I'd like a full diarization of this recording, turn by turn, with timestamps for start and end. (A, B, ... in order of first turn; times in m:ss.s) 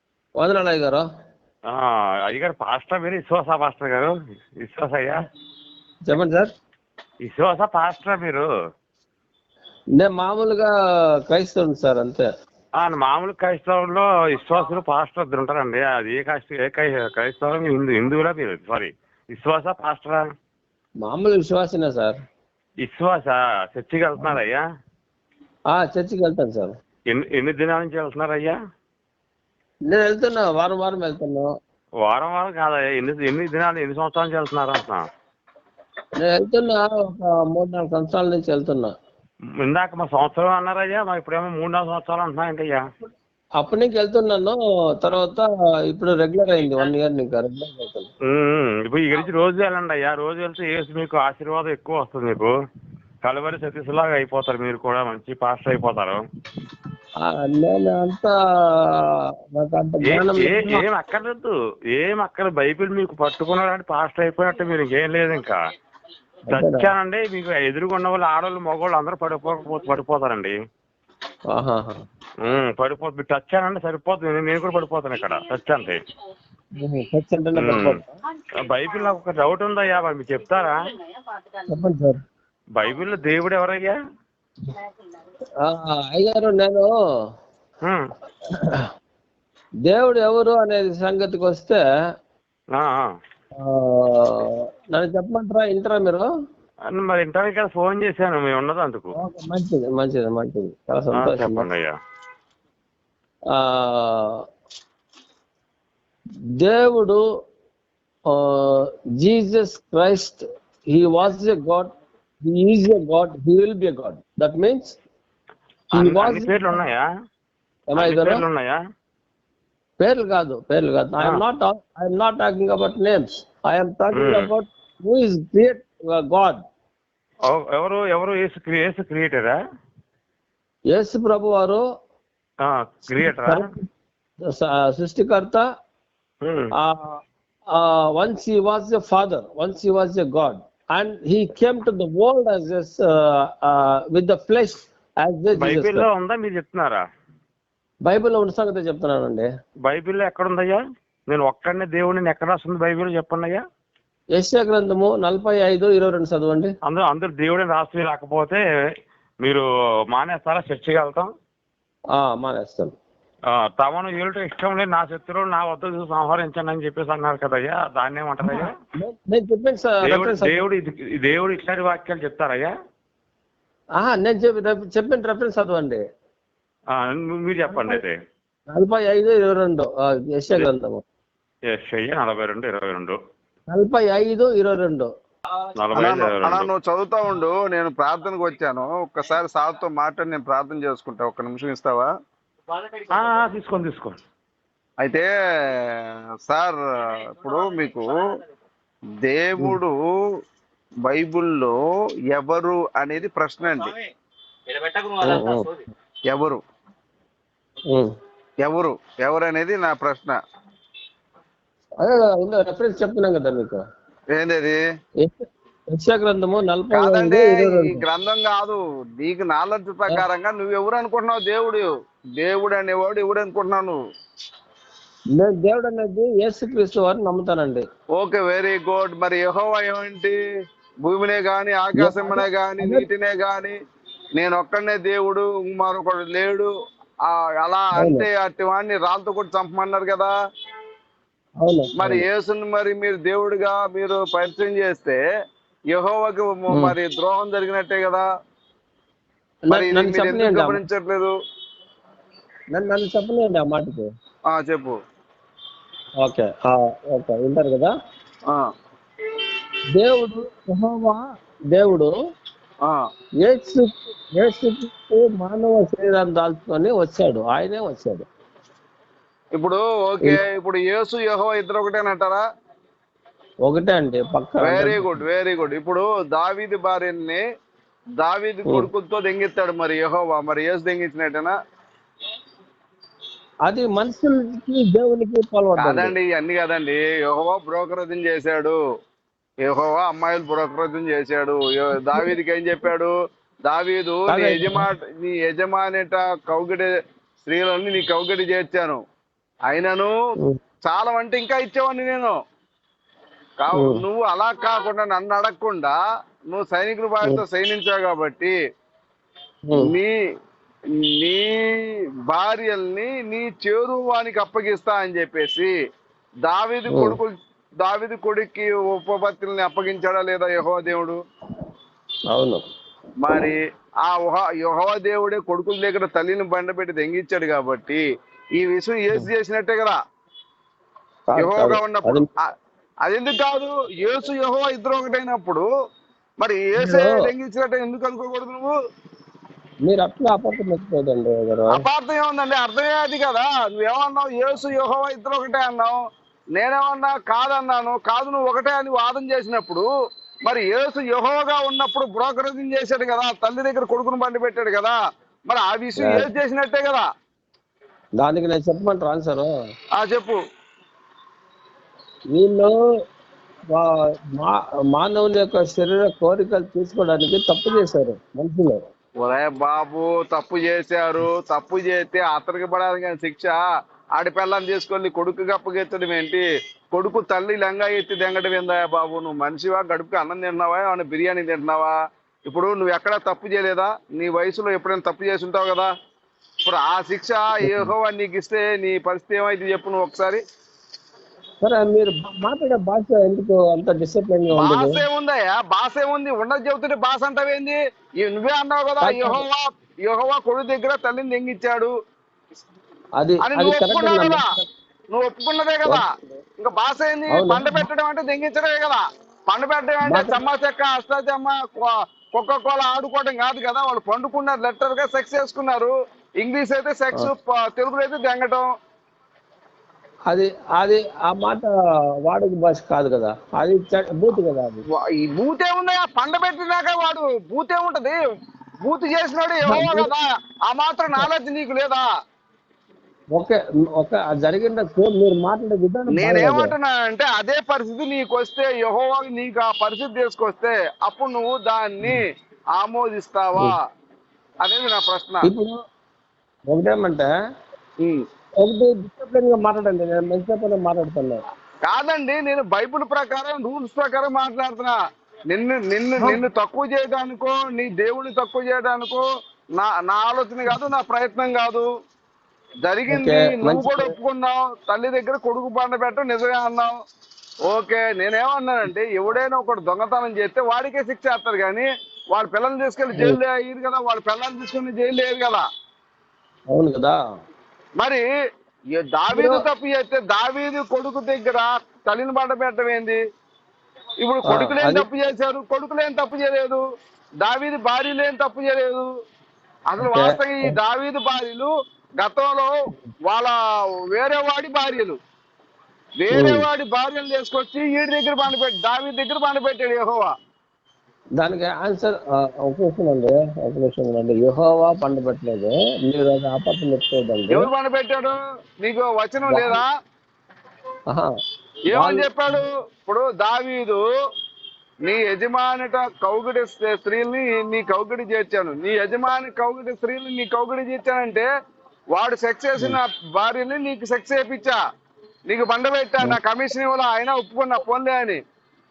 0:00.4-0:01.0 A
0:01.7-0:05.2 B
0:06.0-0:06.5 A
0:07.2-0:08.4 B
0:10.0-0:10.7 A
0:11.3-0:12.3 A
0:12.8-0:20.2 B
0:21.0-0:22.2 A
0:22.8-0:24.6 B
0:25.7-0:26.7 A
0:27.1-0:28.5 B
0:29.9-0:31.5 A
0:32.0-0:35.0 B
0:36.2-0:38.9 A
0:39.6-0:42.8 B
0:43.6-0:48.1 A
0:48.3-0:52.5 B
0:53.2-0:56.2 B
0:57.3-0:58.3 A
0:59.6-1:00.8 A
1:00.1-1:05.6 B
1:06.5-1:06.9 A
1:06.5-1:10.5 B
1:11.5-1:12.0 A
1:12.4-1:16.0 B
1:16.8-1:18.1 A
1:17.6-1:18.0 B
1:18.7-1:20.8 B
1:21.7-1:22.2 A
1:22.8-1:24.0 B
1:25.6-1:26.9 A
1:29.9-1:31.8 A
1:32.8-1:33.0 B
1:33.6-1:36.3 A
1:36.9-1:39.1 B
1:39.2-1:41.7 A
1:41.2-1:41.9 B
1:43.5-1:44.4 A
1:46.6-1:47.2 A
1:48.3-1:51.9 A
1:52.4-1:55.0 A
1:55.9-1:56.8 A
1:56.0-1:57.0 B
1:57.9-1:58.4 A
1:58.0-1:58.8 B
2:00.0-2:06.6 A
2:04.2-2:04.5 B
2:07.5-2:09.6 B
2:10.9-2:11.8 A
2:12.6-2:13.6 B
2:13.1-2:13.8 A
2:14.4-2:15.6 A
2:16.4-2:16.7 B
2:16.8-2:17.2 A
2:17.7-2:26.1 A
2:25.6-2:27.0 B
2:28.0-2:29.5 A
2:29.9-2:30.8 B
2:31.3-2:33.6 B
2:34.4-2:36.7 A
2:36.9-2:38.6 B
2:39.4-2:41.3 B
2:42.2-2:42.9 A
2:43.8-2:48.7 B
2:48.4-2:50.6 A
2:50.0-2:52.7 B
2:54.0-2:56.0 A
2:56.9-2:58.2 B
2:57.7-2:58.0 A
2:58.7-3:01.0 A
3:01.7-3:03.2 B
3:03.7-3:05.1 A
3:05.8-3:06.7 B
3:05.9-3:12.1 C
3:13.1-3:14.2 B
3:15.0-3:15.3 C
3:16.5-3:16.8 C
3:17.3-3:18.1 C
3:19.2-3:19.9 C
3:21.0-3:21.7 C
3:22.3-3:23.9 C
3:25.2-3:25.7 A
3:26.3-3:26.6 C
3:28.6-3:30.4 C
3:32.0-3:33.8 A
3:34.3-3:34.8 C
3:35.2-3:38.0 A
3:36.9-3:41.9 C
3:42.4-3:44.0 C
3:45.3-3:47.8 A
3:48.2-3:50.4 C
3:51.0-3:53.8 C
3:52.0-3:53.0 A
3:54.4-3:56.7 C
3:57.3-4:00.3 C
3:58.0-3:58.2 A
4:01.6-4:02.2 A
4:02.0-4:05.2 C
4:05.9-4:08.2 C
4:09.7-4:10.8 A
4:09.7-4:11.3 C
4:12.7-4:14.1 A
4:14.5-4:15.0 C
4:16.2-4:17.9 A
4:20.0-4:22.1 A
4:23.4-4:28.2 A
4:29.6-4:32.4 C
4:33.7-4:35.2 A
4:34.6-4:37.4 C
4:38.2-4:41.6 C
4:43.7-4:46.1 A
4:45.8-4:48.8 C
4:49.6-4:53.1 C
4:53.7-4:56.9 C
4:54.3-4:54.9 A
4:57.4-4:59.0 C
4:59.7-5:00.1 C
5:00.8-5:02.3 C
5:03.6-5:06.0 C
5:06.5-5:08.5 C
5:09.8-5:10.1 C
5:11.2-5:11.5 C
5:12.3-5:15.7 C
5:16.5-5:21.2 C
5:16.9-5:17.2 A
5:22.3-5:22.6 A
5:23.2-5:28.0 C
5:28.6-5:30.0 C
5:31.3-5:32.2 A
5:31.4-5:32.2 C
5:33.1-5:35.7 C
5:36.4-5:38.7 C
5:36.8-5:37.2 A
5:39.9-5:41.8 A
5:41.7-5:46.0 C
5:46.6-5:49.9 C
5:50.5-5:55.0 C
5:55.5-5:57.0 C
5:56.0-5:56.3 A
5:58.2-5:59.5 A
6:00.0-6:00.4 C
6:02.3-6:02.8 A
6:03.7-6:08.8 A
6:09.2-6:13.6 C
6:14.2-6:21.9 C
6:22.5-6:25.9 C
6:26.6-6:30.4 C
6:27.6-6:27.9 A
6:31.6-6:35.0 A
6:34.5-6:41.9 C
6:39.0-6:39.4 A
6:43.2-6:44.7 A
6:43.4-6:44.4 C
6:45.1-6:46.0 C
6:46.6-6:58.7 C
6:47.3-6:47.9 A
6:50.1-6:50.4 A
7:00.3-7:01.7 A
7:02.3-7:04.8 A
7:04.9-7:08.2 C
7:08.8-7:12.1 C
7:09.7-7:10.1 A
7:13.4-7:16.7 A
7:16.1-7:22.2 C
7:22.8-7:23.8 C
7:24.6-7:25.5 C
7:25.4-7:25.8 A
7:26.7-7:27.3 A
7:28.6-7:31.4 A
7:31.8-7:34.9 C
7:35.5-7:39.2 C
7:39.8-7:41.9 C
7:42.8-7:46.9 C
7:43.1-7:44.1 A
7:47.7-7:55.6 C
7:56.7-7:57.2 A
7:58.0-7:58.2 C
7:59.0-8:03.2 C
7:59.3-7:59.6 A
8:04.2-8:06.8 C
8:04.5-8:05.1 A
8:07.4-8:09.1 C
8:09.9-8:11.7 C
8:10.0-8:10.7 A
8:12.2-8:12.7 C
8:13.3-8:13.6 C
8:14.1-8:15.2 C
8:16.2-8:20.3 C
8:16.3-8:16.6 A
8:21.4-8:27.7 A
8:27.5-8:29.9 C
8:29.5-8:29.8 A
8:31.9-8:34.0 C
8:31.9-8:32.6 A
8:35.1-8:41.5 C
8:42.1-8:44.8 C
8:45.5-8:48.4 C